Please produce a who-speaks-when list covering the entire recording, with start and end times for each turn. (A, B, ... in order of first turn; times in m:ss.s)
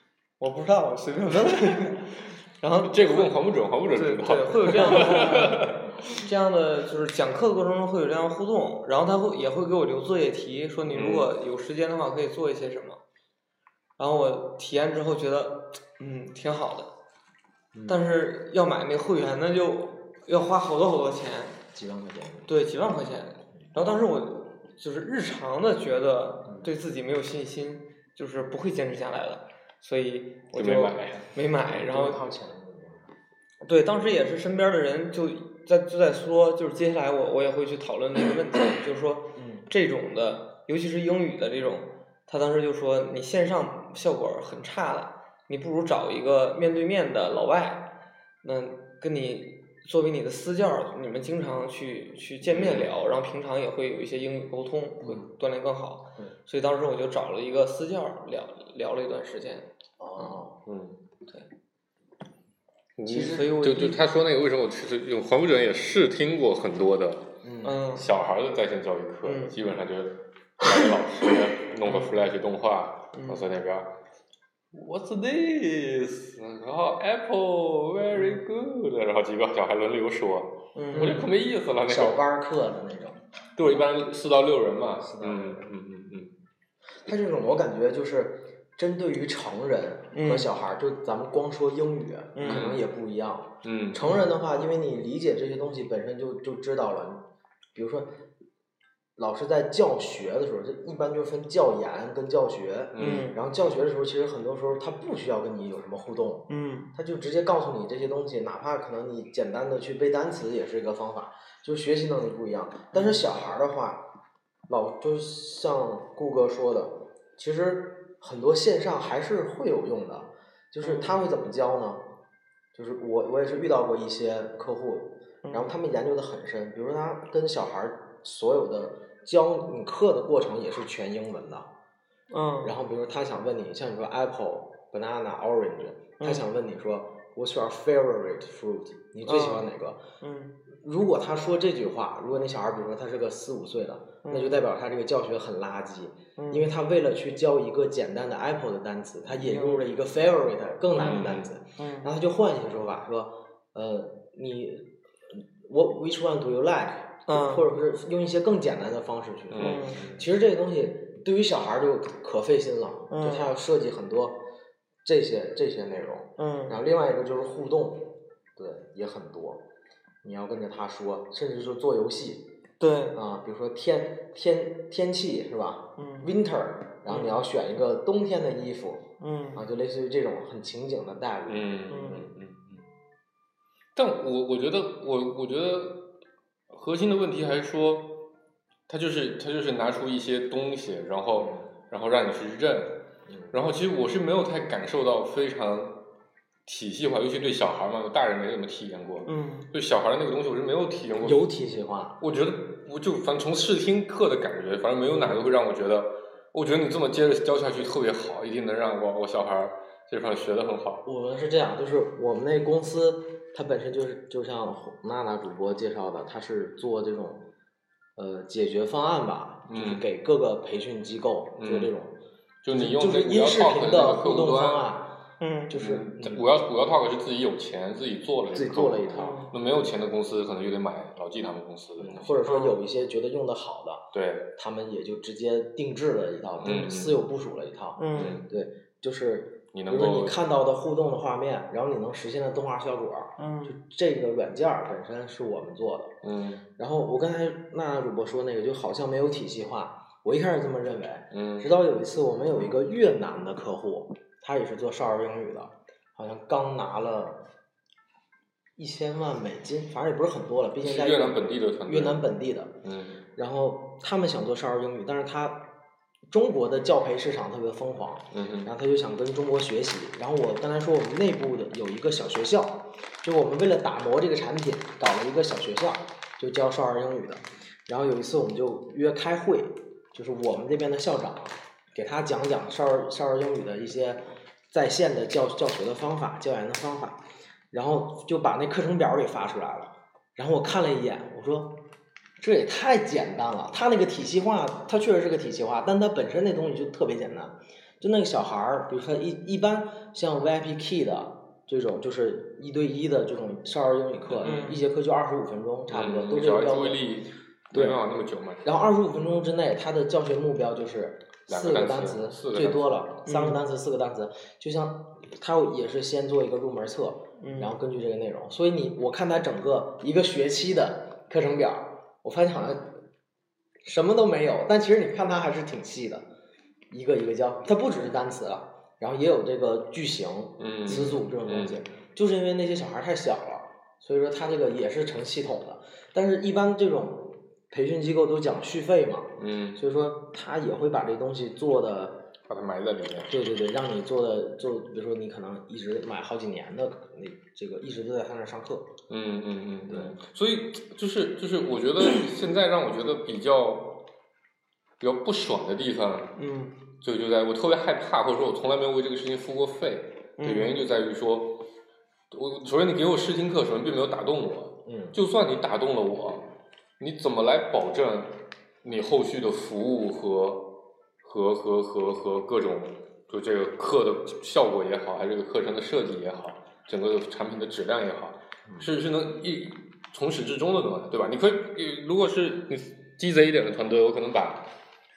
0:00.4-0:03.4 A
0:02.8-0:06.2 B
0:03.9-0:13.0 A
0:04.7-0:05.7 C
0:10.9-0:11.3 B
0:14.0-0:16.9 A
0:17.7-0:18.0 C
0:17.9-0:21.6 A
0:21.7-0:22.5 C
0:22.5-0:32.2 A
0:30.5-0:31.3 B
0:31.7-0:33.1 C
0:33.6-0:47.9 A
0:39.4-0:39.6 C
0:48.4-1:00.3 A
0:52.5-0:52.9 B
1:00.0-1:00.6 C
1:00.6-1:01.0 B
1:03.0-1:07.3 B
1:03.0-1:04.0 A
1:07.4-1:07.8 C
1:07.6-1:08.0 A
1:07.9-1:13.9 B
1:09.2-1:09.5 A
1:11.8-1:12.1 A
1:13.1-1:13.4 A
1:14.7-1:22.2 B
1:18.1-1:18.4 A
1:20.7-1:21.2 A
1:20.9-1:23.8 C
1:23.5-1:26.3 B
1:25.0-1:25.7 C
1:27.0-1:38.1 C
1:30.1-1:30.5 A
1:32.3-1:32.7 A
1:32.4-1:32.8 B
1:33.6-1:34.2 B
1:39.2-1:54.0 C
1:42.9-1:43.3 B
1:43.0-1:43.4 A
1:46.5-1:46.9 A
1:52.9-1:53.2 A
1:54.7-2:02.0 C
2:00.8-2:01.2 A
2:02.7-2:11.7 C
2:05.4-2:05.7 A
2:12.3-2:12.8 A
2:12.6-2:20.0 C
2:16.2-2:16.4 A
2:19.2-2:19.6 A
2:20.2-2:20.6 A
2:20.7-2:44.4 C
2:24.2-2:24.6 A
2:26.4-2:26.7 A
2:29.4-2:29.8 A
2:30.9-2:31.5 B
2:31.0-2:31.2 A
2:31.8-2:32.1 A
2:37.3-2:37.7 A
2:39.5-2:40.2 B
2:39.6-2:40.0 A
2:43.1-2:43.5 A
2:45.0-2:49.6 C
2:46.4-2:46.8 A
2:50.2-2:52.5 C
2:52.8-2:53.2 A
2:53.1-3:01.7 C
2:56.0-2:56.3 A
2:57.1-2:57.4 A
2:59.2-2:59.6 A
3:01.5-3:02.8 B
3:01.9-3:02.3 A
3:04.0-3:06.1 B
3:06.7-3:08.3 B
3:08.9-3:16.0 B
3:11.4-3:11.6 C
3:13.3-3:13.5 C
3:16.6-3:21.4 B
3:19.2-3:19.7 A
3:21.2-3:22.2 C
3:22.2-3:31.0 B
3:25.1-3:25.4 C
3:31.0-3:37.4 C
3:38.2-3:42.1 C
3:39.7-3:40.1 B
3:41.6-3:41.9 B
3:42.6-3:44.9 B
3:42.7-3:45.2 C
3:45.4-3:45.7 A
3:45.7-3:46.4 C
3:45.7-3:52.3 B
3:48.5-3:49.4 C
3:49.1-3:49.5 A
3:52.0-3:54.0 C
3:52.4-3:52.7 A
3:54.1-3:54.5 B
3:54.6-4:06.1 C
3:56.6-3:57.2 B
3:58.0-3:58.4 A
3:58.1-3:58.4 B
3:59.7-4:00.4 B
4:03.4-4:03.8 A
4:06.2-4:06.6 B
4:06.8-4:17.4 C
4:11.3-4:11.7 B
4:18.8-4:22.8 C
4:20.8-4:22.3 B
4:22.8-4:23.2 B
4:23.4-4:25.7 C
4:26.3-4:51.8 C
4:28.3-4:28.7 B
4:52.4-5:07.0 C
5:04.2-5:04.6 B
5:04.4-5:04.8 A
5:05.9-5:08.7 B
5:07.7-5:08.0 C
5:08.6-5:23.0 C
5:11.5-5:13.0 B
5:13.2-5:13.6 A
5:17.4-5:17.8 A
5:23.8-5:26.2 C
5:26.9-5:42.2 C
5:30.6-5:31.8 B
5:39.4-5:39.8 B
5:42.5-5:43.4 B
5:43.3-5:48.9 C
5:49.1-5:54.0 B
5:49.9-5:50.1 C
5:55.0-5:56.4 B
5:56.4-5:56.8 A
5:57.0-6:01.6 B
6:00.4-6:00.8 A
6:02.3-6:06.4 B
6:04.8-6:05.2 C
6:07.0-6:24.7 B